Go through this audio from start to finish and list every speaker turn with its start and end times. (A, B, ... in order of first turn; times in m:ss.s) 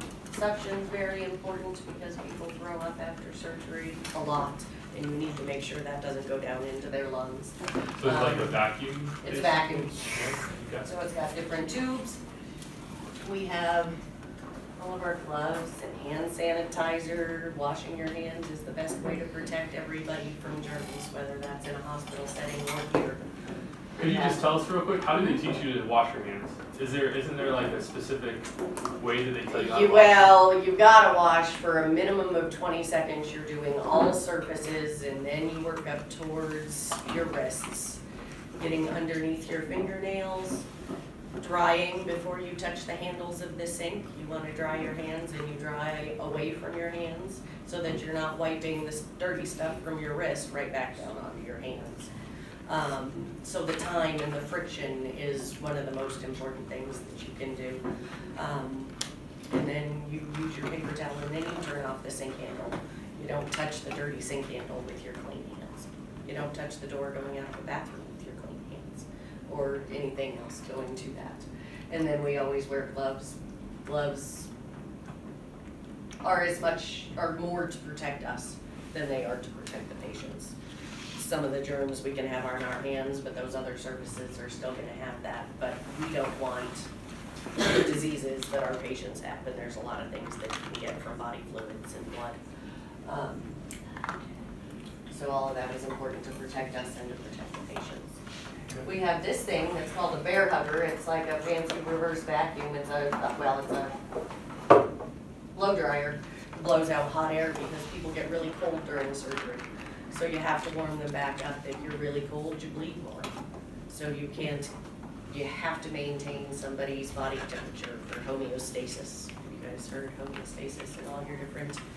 0:00.3-0:08.6 A
0:08.0-0:10.8 B
0:09.2-0:12.2 A
0:13.2-0:14.0 A
0:14.8-0:23.2 A
0:24.0-0:28.5 B
0:24.0-0:24.4 A
0:29.0-0:30.4 B
0:29.5-0:38.0 A
0:38.6-0:40.7 A
0:41.4-0:52.1 A
0:52.7-0:58.9 A
0:59.5-1:14.5 A
1:16.2-1:20.6 A
1:21.2-1:26.9 A
1:27.6-1:32.4 A
1:33.0-1:33.6 A
1:35.1-1:38.2 A
1:38.8-1:43.9 A
1:45.6-1:53.3 A
1:53.9-1:54.7 A
1:55.3-2:01.8 A